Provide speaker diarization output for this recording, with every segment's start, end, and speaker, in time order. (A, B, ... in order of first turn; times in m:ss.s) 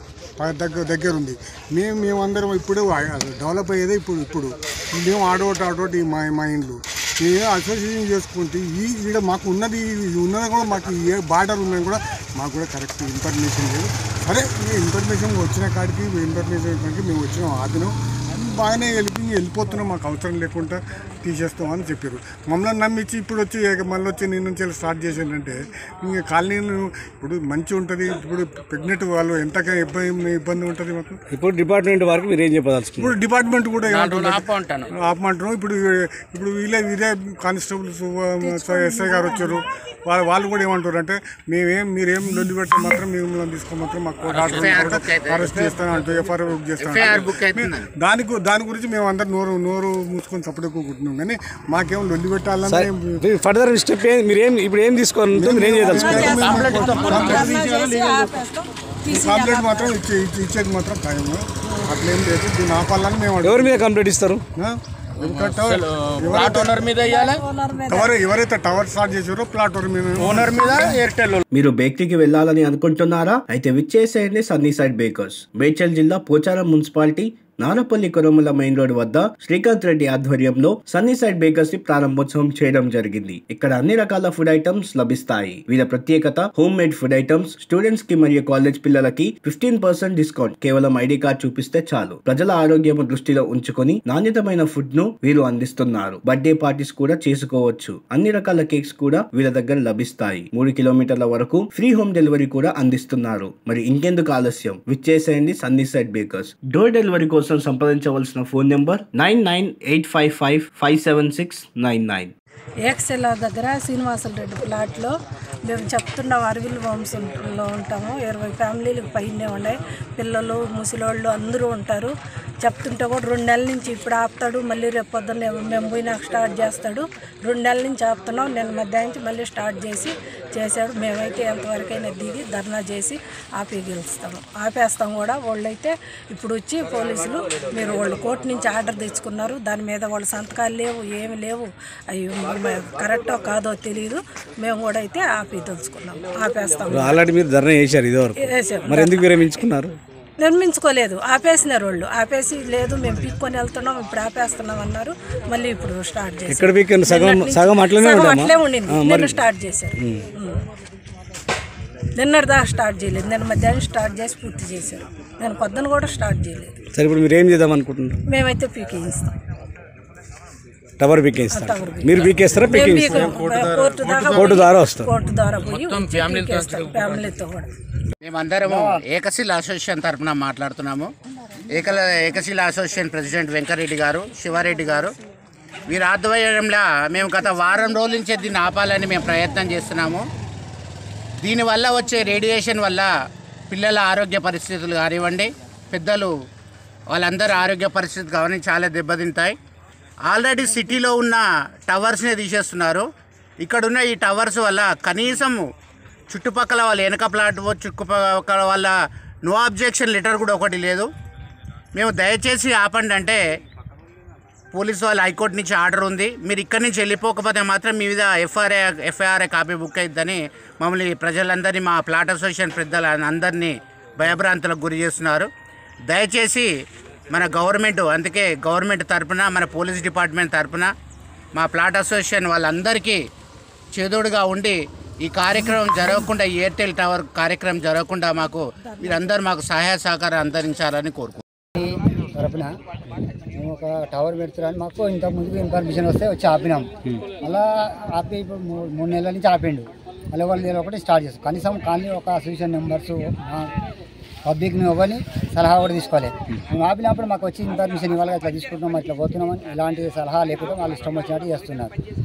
0:00.4-0:31.2 A
0:31.3-0:33.1 B
0:33.0-0:34.4 A
0:33.8-0:34.9 C
0:35.0-0:53.2 A
0:38.4-0:39.6 D
0:44.3-0:44.6 C
0:44.3-0:45.8 E
0:46.8-0:47.9 E
0:52.7-0:56.4 B
0:55.3-0:57.6 A
0:55.8-1:00.0 D
0:56.4-0:58.2 C
0:59.1-1:03.8 A
1:01.7-1:01.9 D
1:03.4-1:04.4 B
1:04.6-1:06.8 A
1:05.2-1:07.4 C
1:06.9-1:08.2 D
1:07.9-1:10.8 A
1:10.2-1:11.4 C
1:11.5-1:52.3 F
1:52.8-2:27.3 D
2:26.9-2:30.0 B
2:28.4-2:29.4 D
2:30.4-2:40.6 D
2:36.5-2:39.4 B
2:40.0-2:40.2 B
2:42.2-2:46.8 D
2:46.9-2:48.2 B
2:48.3-2:49.3 D
2:51.0-2:53.2 B
2:51.5-2:57.7 D
2:53.0-2:54.3 C
2:54.3-2:55.1 B
2:55.6-2:57.3 C
2:58.2-3:01.1 E
2:58.6-2:59.0 G
3:01.7-3:05.1 E
3:05.9-3:10.2 E
3:11.4-3:13.1 E
3:13.7-3:16.3 E
3:17.1-3:19.5 E
3:20.2-3:23.0 E
3:23.6-3:25.6 E
3:26.3-3:28.9 E
3:29.4-3:31.0 E
3:31.9-3:33.4 E
3:34.7-3:45.5 E
3:46.1-3:46.7 E
3:47.3-3:50.9 E
3:51.5-3:53.2 E
3:53.9-4:01.4 E
4:01.8-4:02.7 G
4:03.6-4:06.9 G
4:07.4-4:13.7 G
4:14.4-4:21.9 G